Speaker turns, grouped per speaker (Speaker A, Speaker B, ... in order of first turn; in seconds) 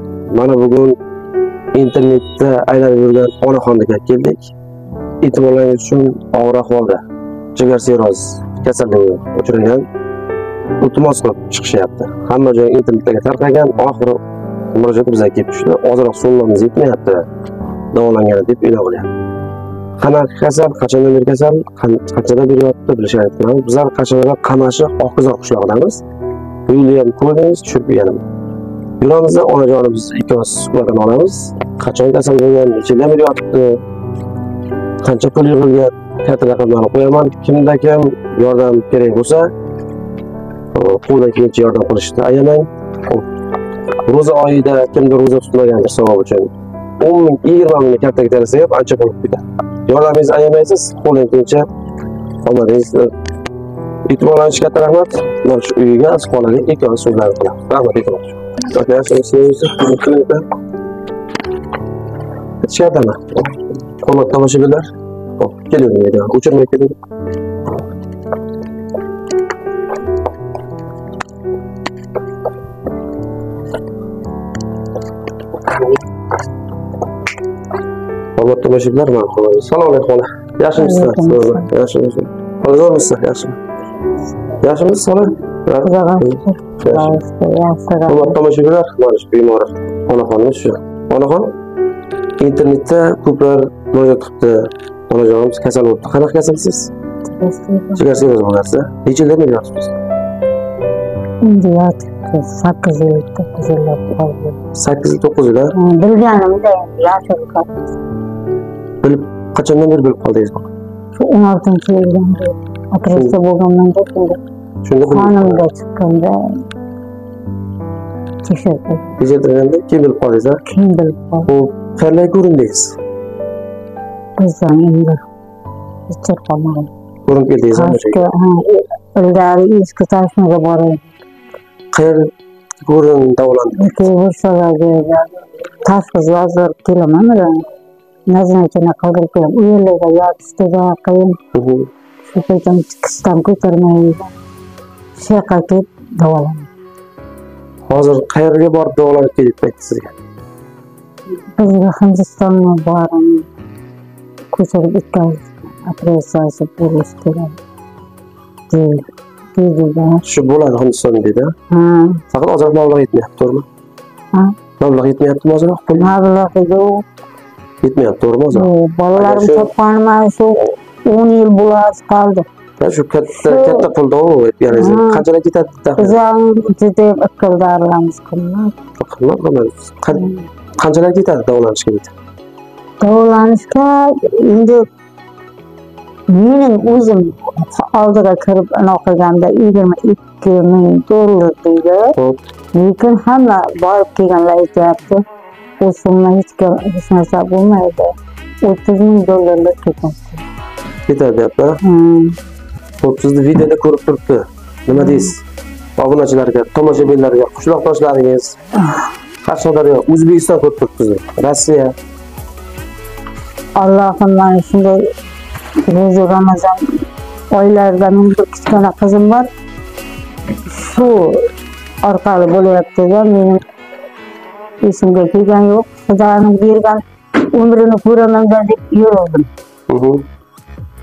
Speaker A: 0.3-0.9, 1.7-4.5, 5.2-7.0, 7.5-9.9, 10.8-17.2, 17.9-19.1, 20.0-26.0, 26.7-28.2, 29.0-33.8, 35.0-39.5, 40.7-43.3, 44.0-51.7, 52.4-53.1, 54.0-60.5, 62.6-67.0, 78.4-83.6, 84.6-87.2, 88.1-91.5, 92.4-96.9, 98.0-100.0, 104.8-105.7, 109.0-110.7, 114.8-115.6, 119.2-120.6, 121.5-123.0, 127.2-128.3, 131.9-133.9, 141.5-141.9, 147.9-150.1, 160.2-161.5, 162.3-163.7, 164.8-166.1, 167.8-169.7, 172.8-176.2, 179.0-180.2, 180.8-182.1, 201.1-201.8, 203.0-205.4, 206.0-208.6, 209.4-211.9, 229.9-230.2
Speaker B: 80.8-81.7, 85.8-88.4, 97.3-98.0, 101.4-104.6, 105.7-107.9, 111.2-114.4, 115.1-116.6, 118.4-119.2, 120.7-121.5, 124.4-125.2, 126.1-126.9, 127.7-131.1, 133.8-137.7, 138.3-141.4, 142.3-144.3, 145.2-146.7, 151.4-153.5, 154.5-157.6, 158.7-160.2, 161.7-162.2, 165.9-167.0, 168.5-172.4, 173.4-173.9, 174.7-175.2, 176.0-178.7, 180.1-180.4, 183.0-184.8, 186.3-192.1, 192.7-195.2, 195.8-200.4, 201.8-202.3, 204.9-205.3, 208.8-209.1, 213.8-215.1, 215.8-219.5, 220.7-221.5, 222.0-223.6, 224.8-229.5